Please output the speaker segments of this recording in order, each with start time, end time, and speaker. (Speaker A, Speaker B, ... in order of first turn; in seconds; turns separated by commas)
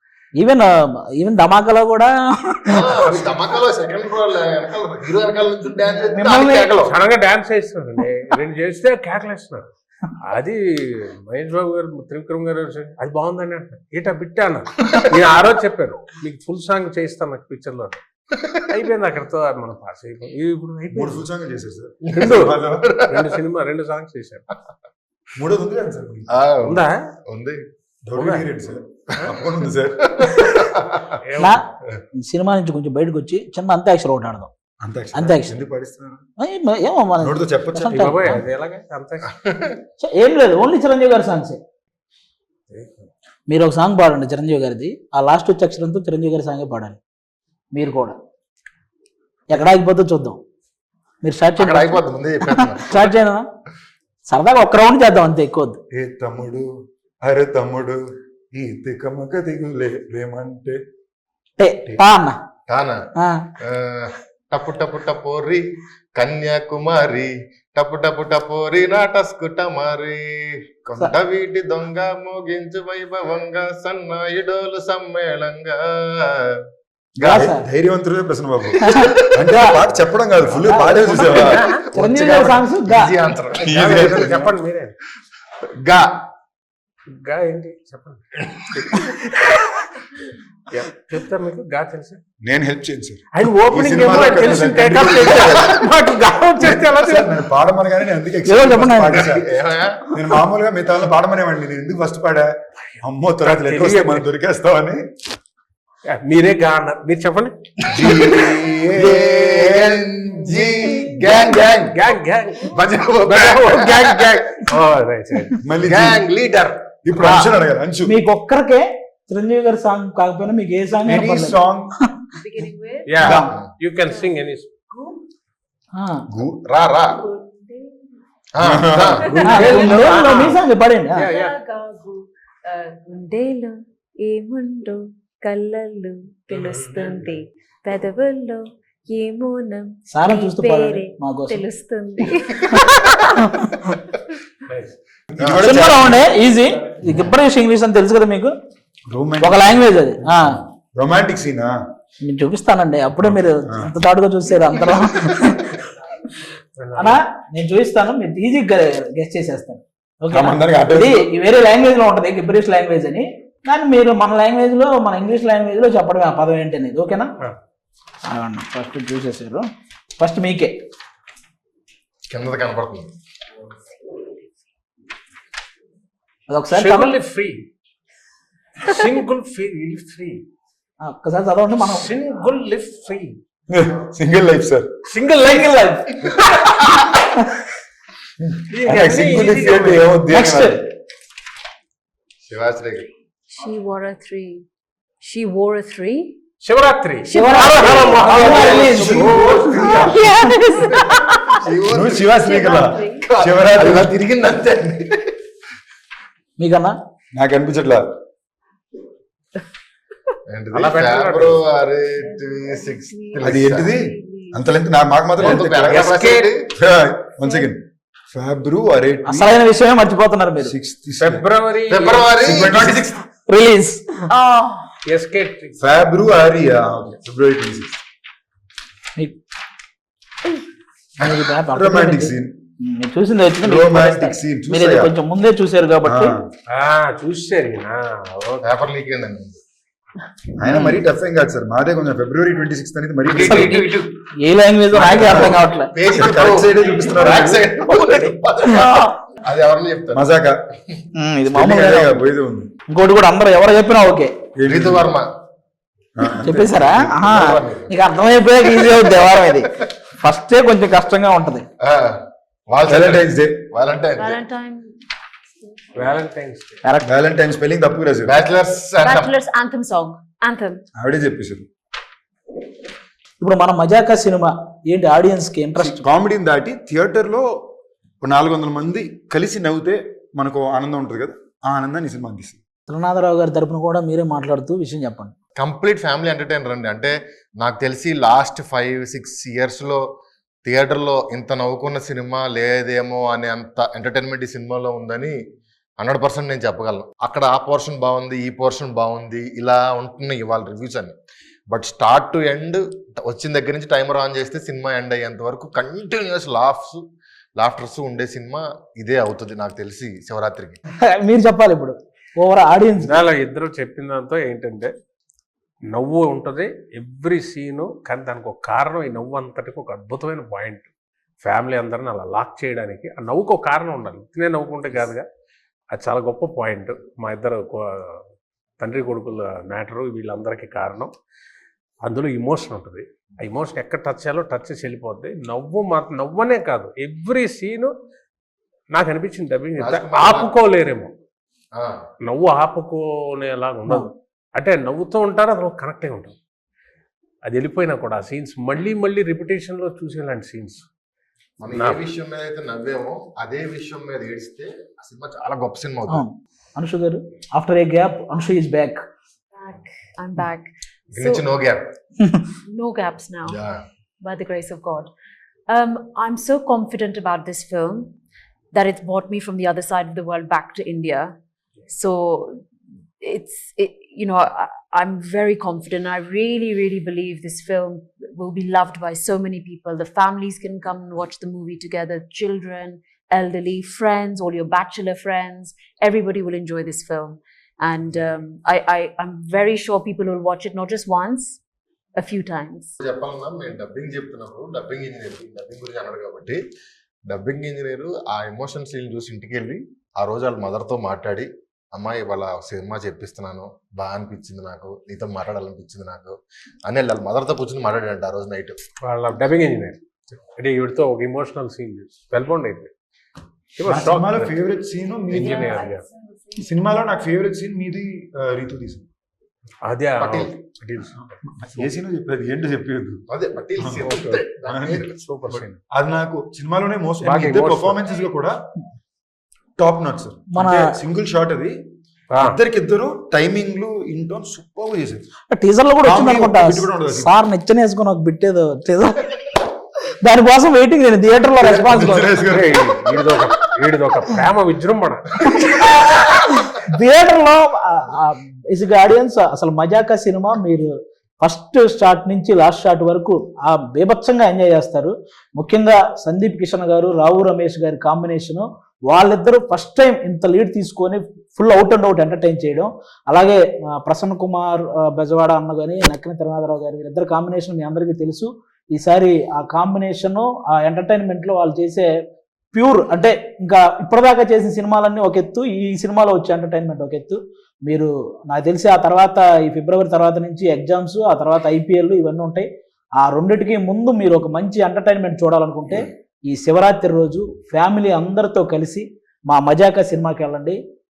Speaker A: 0.4-3.0, Speaker B: 2.7-6.9, Speaker A: 6.1-6.7, Speaker C: 6.8-9.7, Speaker C: 10.2-18.0, Speaker C: 18.5-21.2, Speaker D: 20.9-23.0, Speaker B: 22.1-23.3, Speaker C: 22.2-22.6, Speaker C: 23.1-24.5, Speaker D: 25.3-26.3, Speaker B: 26.3-27.6, Speaker C: 26.6-27.1, Speaker D: 28.1-30.4, Speaker C: 28.1-28.5, Speaker B: 30.1-31.2, Speaker C: 31.2-31.6, Speaker A: 31.4-31.6, Speaker A: 32.2-34.5, Speaker D: 34.8-36.2, Speaker A: 35.1-35.6, Speaker A: 36.4-38.4, Speaker D: 37.2-38.4, Speaker C: 37.9-39.4, Speaker A: 40.0-41.6, Speaker C: 42.7-43.1, Speaker A: 43.5-47.0, Speaker A: 47.7-48.2, Speaker A: 49.5-50.4, Speaker A: 51.2-53.5, Speaker B: 51.6-53.1, Speaker A: 54.3-55.8, Speaker D: 55.9-56.7, Speaker D: 57.2-58.0, Speaker D: 58.5-60.8, Speaker A: 61.6-62.4, Speaker B: 62.7-63.0, Speaker A: 63.1-63.5, Speaker B: 63.6-76.6, Speaker D: 77.2-81.7, Speaker A: 77.2-77.7, Speaker A: 78.8-79.8, Speaker A: 80.6-83.1, Speaker B: 81.2-84.4, Speaker D: 83.6-84.5, Speaker C: 83.7-85.0, Speaker B: 85.8-86.1, Speaker C: 87.1-89.7, Speaker C: 90.7-92.2, Speaker D: 92.4-95.8, Speaker C: 93.3-97.3, Speaker D: 96.6-99.5, Speaker A: 98.5-99.2, Speaker B: 99.2-100.0, Speaker D: 100.1-105.0, Speaker C: 102.9-104.2, Speaker C: 106.1-108.3, Speaker B: 107.9-112.0, Speaker D: 107.9-111.4, Speaker C: 111.2-115.6, Speaker B: 112.7-114.7, Speaker D: 115.6-116.2, Speaker B: 115.8-117.3, Speaker D: 117.0-118.2, Speaker A: 118.0-122.2, Speaker D: 121.0-121.9, Speaker E: 122.4-123.4, Speaker C: 123.1-124.7, Speaker D: 123.2-123.5, Speaker A: 123.2-123.5, Speaker E: 124.9-125.2, Speaker A: 126.0-126.2, Speaker D: 126.3-126.6, Speaker B: 126.5-127.2, Speaker E: 127.0-128.0, Speaker B: 128.5-130.2, Speaker D: 128.6-129.3, Speaker E: 129.2-130.6, Speaker C: 129.2-130.6, Speaker A: 129.4-131.3, Speaker C: 131.2-131.5, Speaker E: 131.2-143.6, Speaker C: 136.5-137.3, Speaker A: 140.1-141.7, Speaker A: 142.7-144.0, Speaker C: 144.7-144.9, Speaker D: 145.3-146.3, Speaker B: 145.4-145.8, Speaker A: 145.6-148.5, Speaker D: 147.0-147.3, Speaker D: 149.1-151.8, Speaker A: 149.4-150.6, Speaker A: 152.2-155.8, Speaker D: 153.2-153.9, Speaker C: 156.8-157.2, Speaker A: 156.9-167.3, Speaker D: 160.3-161.3, Speaker A: 168.3-170.8, Speaker B: 172.3-173.1, Speaker A: 176.5-177.2, Speaker C: 176.7-177.6, Speaker C: 178.8-180.4, Speaker A: 181.0-182.1, Speaker C: 181.8-183.4, Speaker D: 183.7-184.9, Speaker C: 185.1-185.8, Speaker A: 185.4-186.3, Speaker A: 187.1-187.5, Speaker D: 188.4-190.8, Speaker C: 188.7-190.2, Speaker A: 190.3-190.8, Speaker B: 192.4-193.1, Speaker E: 193.5-194.6, Speaker E: 195.2-196.4, Speaker C: 196.6-200.1, Speaker E: 197.2-198.7, Speaker A: 197.3-199.6, Speaker B: 198.4-199.3, Speaker D: 198.5-200.2, Speaker E: 199.6-201.6, Speaker A: 200.1-200.8, Speaker B: 201.1-202.5, Speaker D: 201.9-204.1, Speaker E: 202.3-203.3, Speaker B: 203.2-205.3, Speaker A: 206.6-206.9, Speaker D: 207.3-208.1, Speaker B: 210.5-214.0, Speaker C: 210.7-211.7, Speaker E: 212.2-214.6, Speaker D: 213.4-219.6, Speaker B: 215.4-216.6, Speaker C: 215.4-216.5, Speaker E: 217.4-217.7, Speaker A: 219.3-220.7, Speaker D: 220.6-221.4, Speaker C: 221.2-222.3, Speaker B: 221.9-223.1, Speaker D: 222.4-223.2, Speaker A: 223.5-224.2, Speaker E: 224.3-224.9, Speaker C: 225.1-226.0, Speaker D: 225.8-228.0, Speaker A: 231.2-236.3, Speaker D: 231.7-232.6, Speaker D: 233.6-235.1, Speaker D: 236.0-236.5, Speaker C: 236.7-238.7, Speaker B: 238.6-239.6, Speaker D: 240.5-243.9, Speaker A: 240.6-241.0, Speaker B: 243.2-244.1, Speaker A: 243.4-245.9, Speaker D: 244.9-247.8, Speaker B: 245.2-250.3, Speaker A: 248.7-249.1, Speaker D: 250.1-250.6, Speaker A: 251.1-252.2, Speaker D: 251.5-252.7, Speaker A: 252.9-254.3, Speaker D: 254.6-255.1, Speaker B: 254.7-255.3, Speaker D: 256.1-257.2, Speaker A: 256.4-261.7, Speaker B: 257.0-257.9, Speaker B: 261.8-264.4, Speaker D: 262.9-263.6, Speaker E: 264.2-264.9, Speaker E: 265.6-266.0, Speaker C: 265.9-266.8, Speaker A: 266.8-267.1, Speaker D: 267.0-268.4, Speaker B: 268.2-269.3, Speaker E: 269.0-270.8, Speaker D: 271.0-271.6, Speaker A: 273.4-276.0, Speaker D: 275.8-277.6, Speaker D: 278.2-282.6, Speaker A: 282.9-285.3, Speaker B: 285.6-290.0, Speaker B: 290.6-295.4, Speaker B: 296.0-301.1, Speaker B: 301.7-307.0, Speaker B: 307.6-310.8, Speaker A: 311.0-313.2, Speaker C: 313.0-314.9, Speaker C: 315.9-320.9, Speaker C: 321.4-325.2, Speaker C: 325.9-328.2, Speaker C: 328.8-331.1, Speaker C: 332.0-337.9, Speaker C: 338.9-341.1, Speaker B: 339.8-340.5, Speaker B: 341.7-342.0, Speaker C: 342.2-346.4, Speaker C: 347.4-350.8, Speaker B: 351.6-356.2, Speaker C: 351.7-352.0, Speaker A: 356.1-359.0, Speaker E: 359.5-361.5, Speaker B: 361.1-361.9, Speaker E: 362.6-363.6, Speaker B: 363.5-363.8, Speaker E: 364.2-365.1, Speaker E: 365.7-368.1, Speaker E: 368.7-371.3, Speaker E: 371.9-372.6, Speaker E: 373.2-391.6, Speaker E: 392.1-393.0, Speaker B: 393.0-396.6, Speaker B: 397.3-408.8, Speaker C: 409.0-412.9, Speaker C: 413.8-414.6, Speaker D: 413.8-415.7, Speaker C: 415.3-416.0, Speaker E: 415.3-416.7, Speaker D: 416.6-419.1, Speaker C: 419.9-421.8, Speaker B: 420.2-420.5, Speaker D: 421.4-423.2, Speaker B: 423.3-425.2, Speaker D: 423.8-424.1, Speaker C: 423.9-424.5, Speaker D: 424.6-428.6, Speaker C: 425.0-425.8, Speaker C: 427.2-428.0, Speaker D: 429.8-431.8, Speaker A: 430.5-431.0, Speaker C: 432.3-432.6, Speaker D: 432.4-435.2, Speaker A: 435.5-439.4, Speaker D: 436.0-437.3, Speaker A: 440.2-442.4, Speaker D: 441.6-443.0, Speaker C: 442.4-445.5, Speaker A: 446.2-472.1, Speaker A: 472.7-482.7, Speaker A: 483.2-490.8